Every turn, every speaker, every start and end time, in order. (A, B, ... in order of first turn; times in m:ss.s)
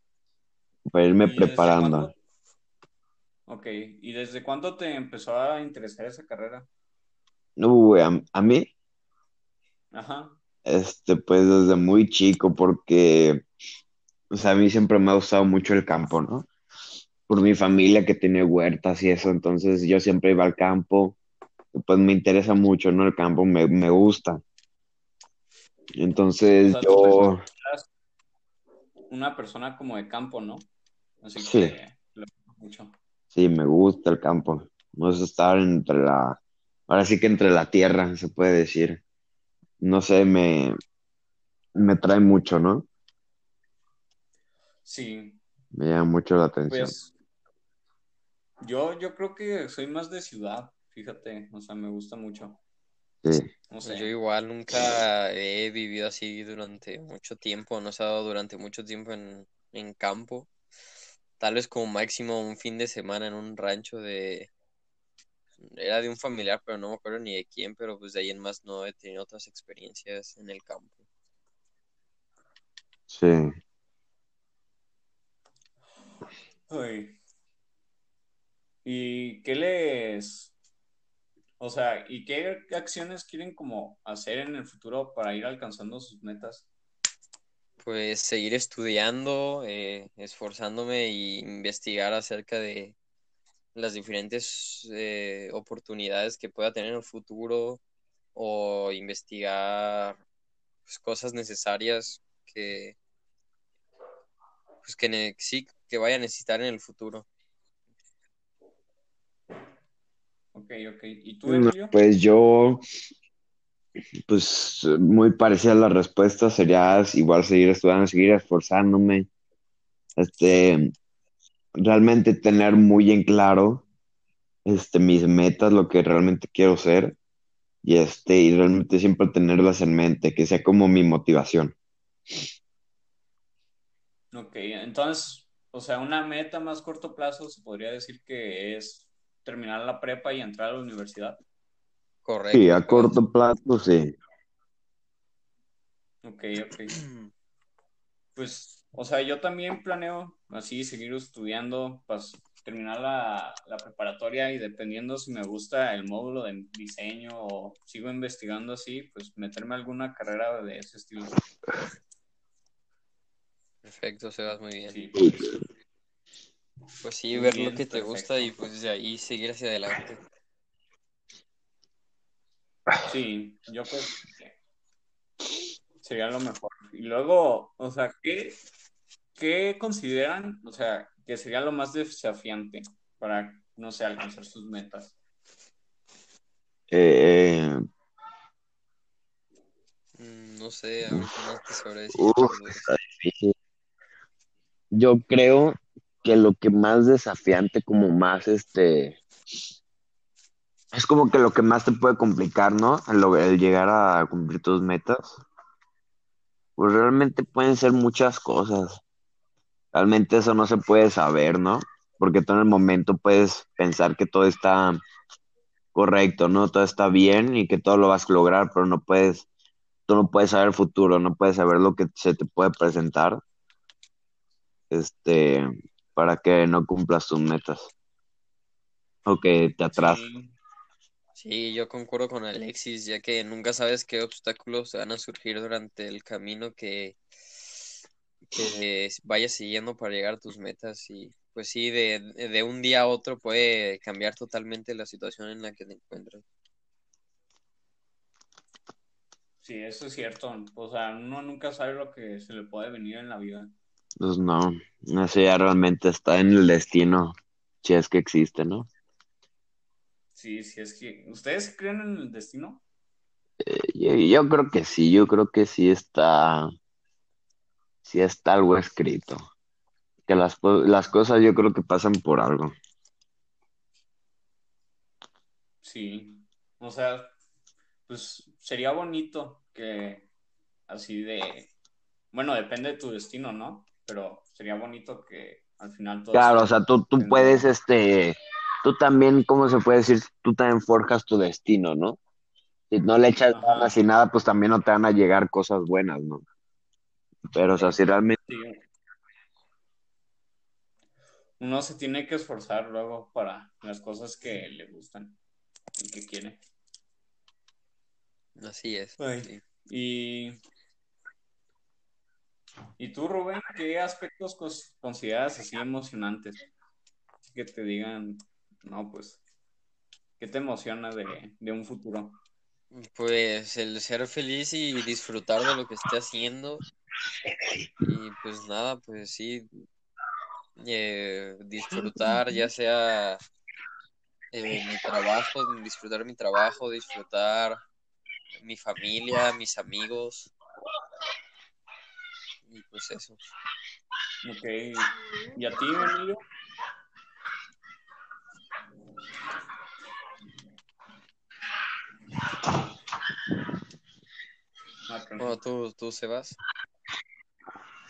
0:00.9-0:02.1 A
0:01.2-0:02.2 B
0:03.5-0:06.7 B
0:07.6-0:08.7 A
0:09.9-0:10.4 B
0:10.6-0:13.4 A
0:14.3-0:16.5 A
0:17.3-0:21.2 A
0:21.7-0:24.4 A
0:26.0-0:27.4 A
0:26.6-0:27.9 B
0:29.1-0:30.7 B
0:31.2-0:32.9 B
0:31.4-0:31.7 A
0:33.3-0:36.4 A
0:36.9-0:39.0 A
0:39.8-0:40.8 A
0:41.7-0:42.9 A
0:44.8-0:45.4 B
0:45.7-0:46.9 A
0:46.7-0:47.1 B
0:48.6-0:52.6 B
0:53.7-0:54.1 B
0:53.8-1:00.5 C
1:01.4-1:04.5 C
1:05.6-1:11.0 C
1:13.1-1:13.5 A
1:16.7-1:17.2 B
1:18.8-1:20.5 B
1:21.6-1:26.7 B
1:27.8-1:33.0 C
1:33.7-1:37.8 C
1:38.3-1:40.2 C
1:40.8-1:43.0 C
1:44.8-1:47.3 C
1:50.5-1:52.0 B
1:51.4-1:52.8 A
1:54.3-1:59.3 A
2:00.2-2:00.9 A
2:01.8-2:03.8 A
2:04.6-2:07.2 A
2:07.8-2:11.7 A
2:14.3-2:21.4 B
2:22.2-2:23.2 C
2:22.5-2:24.1 A
2:26.2-2:27.0 B
2:27.0-2:27.3 C
2:28.4-2:41.4 B
2:43.8-2:45.0 C
2:44.9-2:45.5 B
2:45.2-2:45.4 A
2:47.0-2:50.2 C
2:47.3-2:48.5 B
2:53.0-2:54.5 B
2:56.0-2:58.6 B
2:59.4-3:05.1 B
3:06.9-3:07.8 A
3:10.2-3:12.9 C
3:12.1-3:13.5 A
3:14.9-3:19.2 A
3:20.9-3:25.4 A
3:26.8-3:29.0 A
3:29.9-3:35.0 A
3:35.9-3:39.5 A
3:40.1-3:43.4 A
3:44.9-3:47.9 A
3:49.2-3:50.2 A
3:49.9-3:50.5 B
3:51.3-3:57.2 C
3:58.5-4:06.4 C
4:09.6-4:13.7 B
4:14.2-4:18.9 A
4:20.4-4:22.8 B
4:23.6-4:26.7 A
4:28.0-4:29.4 A
4:30.3-4:32.7 A
4:35.8-4:37.3 B
4:38.1-4:40.3 B
4:40.9-4:41.7 B
4:42.3-4:47.7 B
4:46.3-4:52.2 A
4:52.9-4:56.4 A
4:53.5-4:53.9 B
4:57.5-4:58.4 A
4:57.7-4:58.8 B
5:01.6-5:05.4 B
5:06.0-5:06.6 B
5:08.6-5:09.6 C
5:09.2-5:10.6 B
5:13.0-5:16.6 B
5:17.5-5:19.4 B
5:20.4-5:22.4 B
5:22.9-5:26.8 C
5:28.0-5:29.7 C
5:30.8-5:33.4 C
5:34.5-5:37.8 C
5:38.5-5:40.5 C
5:42.7-5:43.4 C
5:44.4-5:46.4 B
5:55.1-5:55.6 B
5:55.4-5:56.6 C